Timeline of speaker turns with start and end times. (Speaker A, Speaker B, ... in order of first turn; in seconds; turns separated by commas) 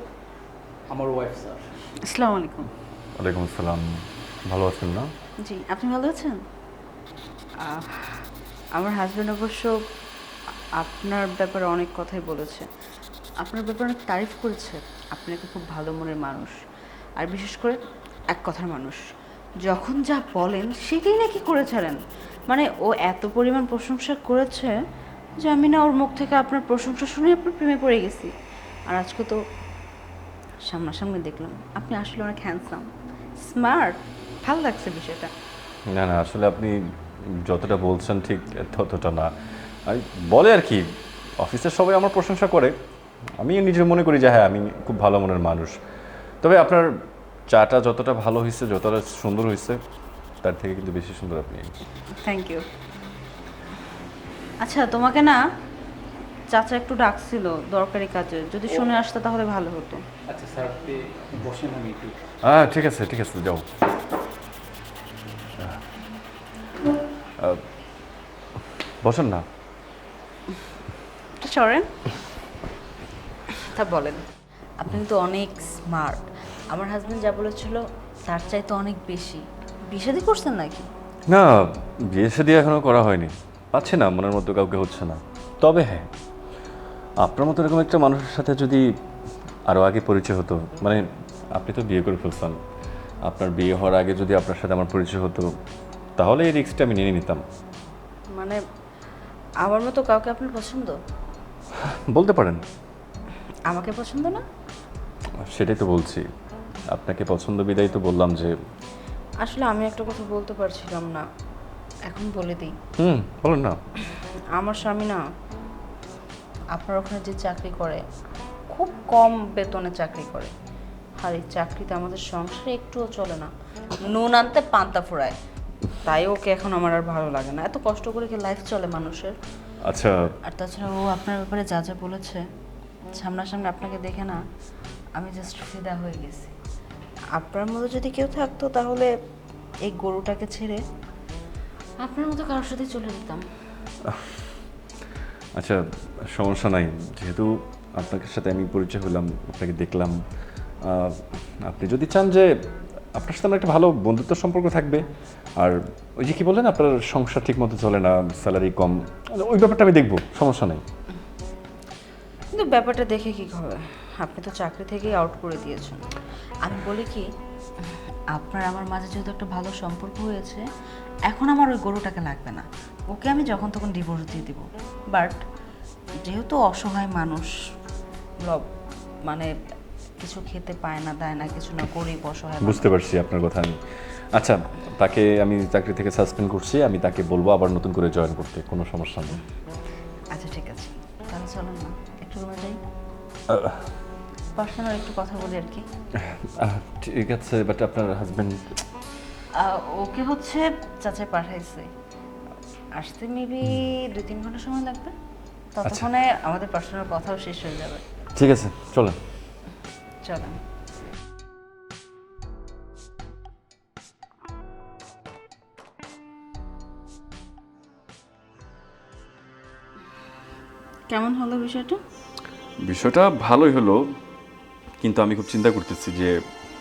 Speaker A: 0.9-1.7, Speaker B: 2.0-2.7, Speaker C: 3.2-3.8, Speaker C: 4.5-5.1, Speaker B: 5.4-6.4, Speaker B: 7.6-9.8, Speaker B: 10.8-12.7, Speaker B: 13.4-16.6, Speaker B: 17.2-19.0, Speaker B: 19.6-24.7, Speaker B: 25.4-28.3, Speaker B: 28.9-29.4, Speaker B: 30.7-35.3, Speaker C: 35.9-36.8, Speaker C: 37.4-39.3, Speaker C: 39.9-40.8, Speaker C: 41.4-42.7, Speaker C: 43.4-45.8, Speaker C: 46.4-46.9, Speaker C: 47.5-49.8, Speaker C: 50.4-51.7, Speaker B: 52.1-52.6, Speaker B: 54.6-55.4, Speaker B: 56.5-60.0, Speaker A: 58.7-59.0, Speaker A: 60.3-62.2, Speaker C: 62.4-63.6, Speaker C: 69.0-69.4, Speaker B: 71.4-71.9, Speaker B: 73.5-74.2, Speaker B: 74.8-80.9, Speaker C: 81.3-86.1, Speaker C: 87.2-88.8, Speaker C: 89.7-91.0, Speaker C: 91.5-92.5, Speaker C: 93.3-95.5, Speaker C: 96.2-97.4, Speaker B: 98.3-98.6, Speaker B: 99.6-101.0, Speaker C: 101.8-102.6, Speaker B: 103.7-104.4, Speaker C: 105.5-106.2, Speaker C: 106.9-108.5, Speaker B: 109.4-111.2, Speaker B: 112.1-112.7, Speaker C: 113.0-113.8, Speaker B: 114.1-115.2, Speaker B: 116.7-118.0, Speaker B: 118.7-120.5, Speaker B: 121.2-125.3, Speaker B: 126.0-129.3, Speaker C: 129.8-130.2, Speaker B: 130.4-132.4, Speaker B: 133.1-134.4, Speaker B: 135.2-136.5, Speaker B: 137.3-139.1, Speaker B: 139.8-140.8, Speaker B: 142.0-143.4, Speaker C: 144.0-144.4, Speaker C: 145.6-150.2, Speaker C: 150.8-152.5, Speaker C: 153.1-155.0, Speaker C: 155.6-160.8, Speaker B: 162.5-166.0, Speaker B: 166.6-167.3, Speaker B: 168.3-170.6, Speaker B: 171.3-175.4, Speaker B: 176.2-177.5, Speaker B: 179.2-179.5, Speaker B: 180.2-182.9, Speaker C: 182.6-189.4, Speaker B: 190.3-192.8, Speaker C: 193.5-193.9, Speaker B: 194.6-195.8, Speaker C: 196.2-198.7, Speaker B: 199.6-201.9, Speaker B: 203.0-205.1, Speaker B: 205.7-208.0, Speaker C: 208.3-209.2, Speaker B: 210.2-210.6, Speaker B: 221.1-222.0, Speaker C: 222.9-224.0, Speaker C: 225.0-226.3